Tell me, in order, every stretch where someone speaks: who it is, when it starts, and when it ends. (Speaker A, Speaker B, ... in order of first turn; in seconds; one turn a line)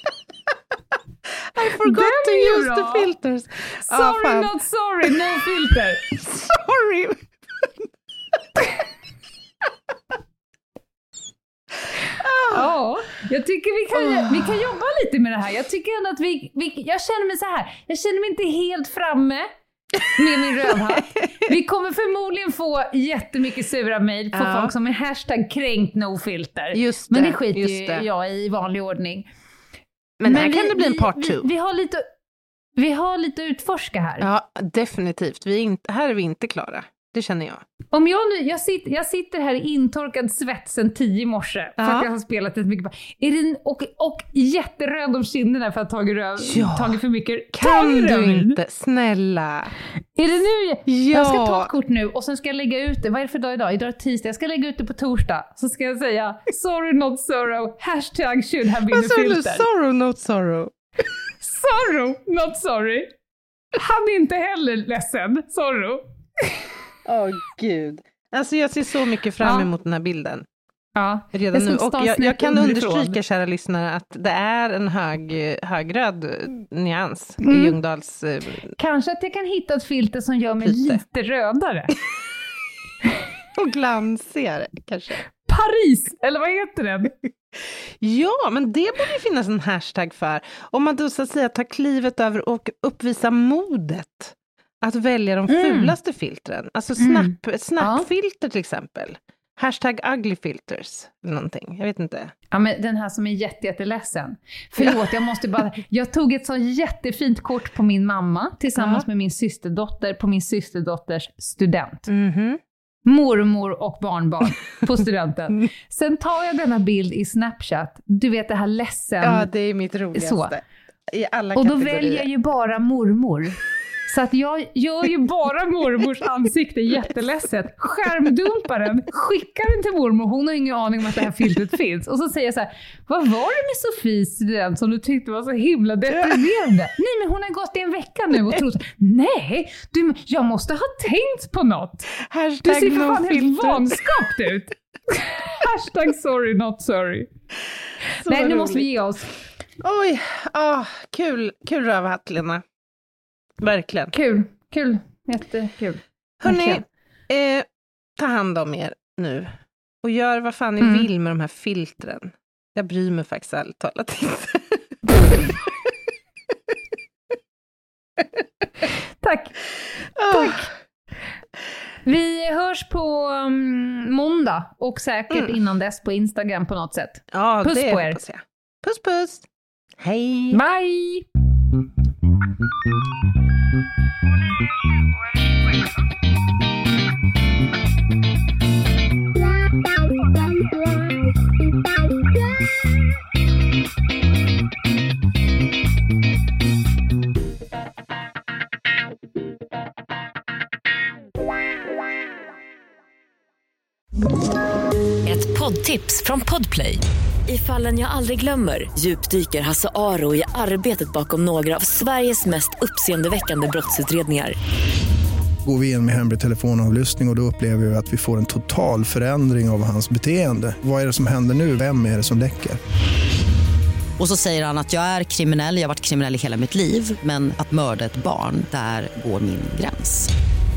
Speaker A: 1.5-4.5
Speaker B: 1.8-3.1
Speaker B: 3.9-6.0
Speaker A: 6.1-7.2
Speaker A: 12.1-12.7
Speaker B: 12.5-19.5
Speaker A: 13.9-14.6
Speaker B: 20.1-29.3
Speaker A: 24.3-24.7
Speaker A: 26.7-28.1
Speaker A: 30.2-31.5
Speaker B: 30.3-32.0
Speaker B: 32.8-34.3
Speaker A: 34.2-37.6
Speaker B: 37.9-48.6
Speaker A: 41.8-42.1
Speaker A: 46.4-47.0
Speaker A: 47.5-49.7
Speaker B: 50.1-59.6
Speaker A: 50.9-51.7
Speaker A: 58.9-60.7
Speaker B: 61.4-63.1
Speaker B: 63.7-66.6
Speaker A: 67.0-70.5
Speaker B: 69.4-69.7
Speaker B: 71.0-73.2
Speaker A: 71.3-78.7
Speaker B: 77.4-77.8
Speaker B: 78.8-81.9
Speaker A: 80.6-81.0
Speaker A: 83.5-85.2
Speaker B: 85.5-87.1
Speaker A: 88.0-102.3
Speaker B: 95.5-96.0
Speaker B: 97.0-98.1
Speaker B: 102.5-112.1
Speaker A: 104.8-105.1
Speaker A: 108.8-109.0
Speaker A: 112.1-112.6
Speaker B: 113.1-119.5
Speaker A: 119.2-122.3
Speaker B: 120.1-120.6
Speaker B: 121.5-142.1
Speaker A: 142.2-144.0
Speaker B: 142.6-147.3
Speaker B: 148.2-149.3
Speaker A: 148.2-148.9
Speaker A: 149.8-152.6
Speaker A: 153.6-154.1
Speaker B: 154.1-156.8
Speaker A: 156.4-165.5
Speaker B: 160.8-161.1
Speaker B: 169.2-169.6
Speaker A: 170.2-170.7
Speaker B: 170.2-170.7
Speaker B: 172.1-178.2
Speaker A: 177.3-179.5
Speaker A: 180.0-180.6
Speaker B: 180.5-181.3
Speaker C: 205.2-214.6
Speaker D: 215.7-222.8
Speaker E: 224.2-230.3